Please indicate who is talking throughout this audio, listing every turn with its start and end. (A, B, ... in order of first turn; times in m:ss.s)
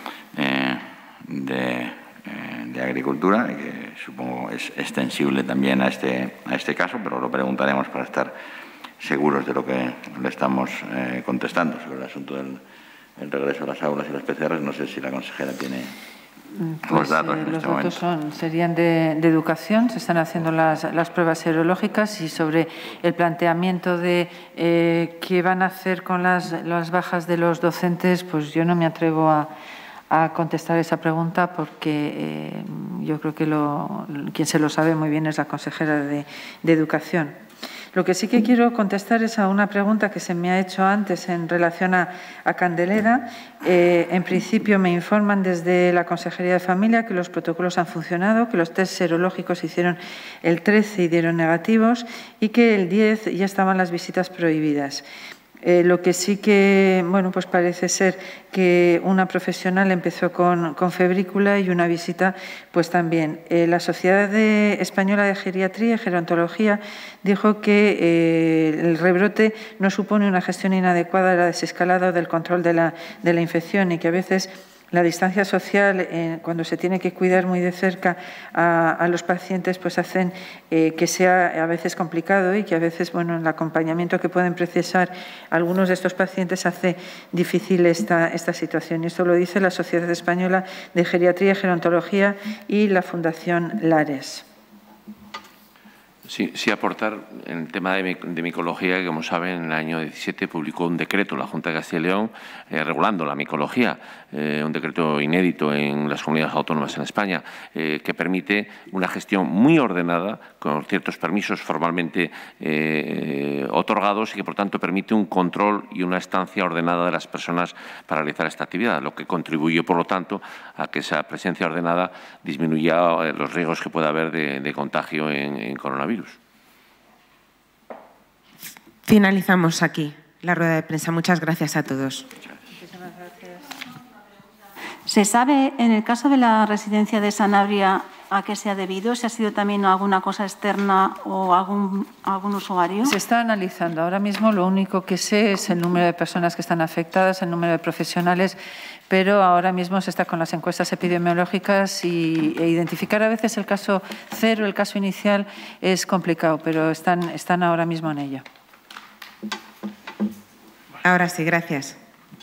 0:00.3-0:08.4 A
0:09.0-0:12.6 A
0:13.2-0:16.0 A
0:16.5-0:29.5 B
0:16.8-0:18.0 A
0:30.1-0:37.4 B
0:37.9-0:55.0 B
0:55.6-1:34.4 B
1:36.2-2:06.4 C
2:09.0-2:12.3 D
2:12.7-2:13.7 B
2:15.1-2:23.1 E
2:23.0-2:28.6 B
2:29.1-2:38.4 B
2:41.0-2:42.0 D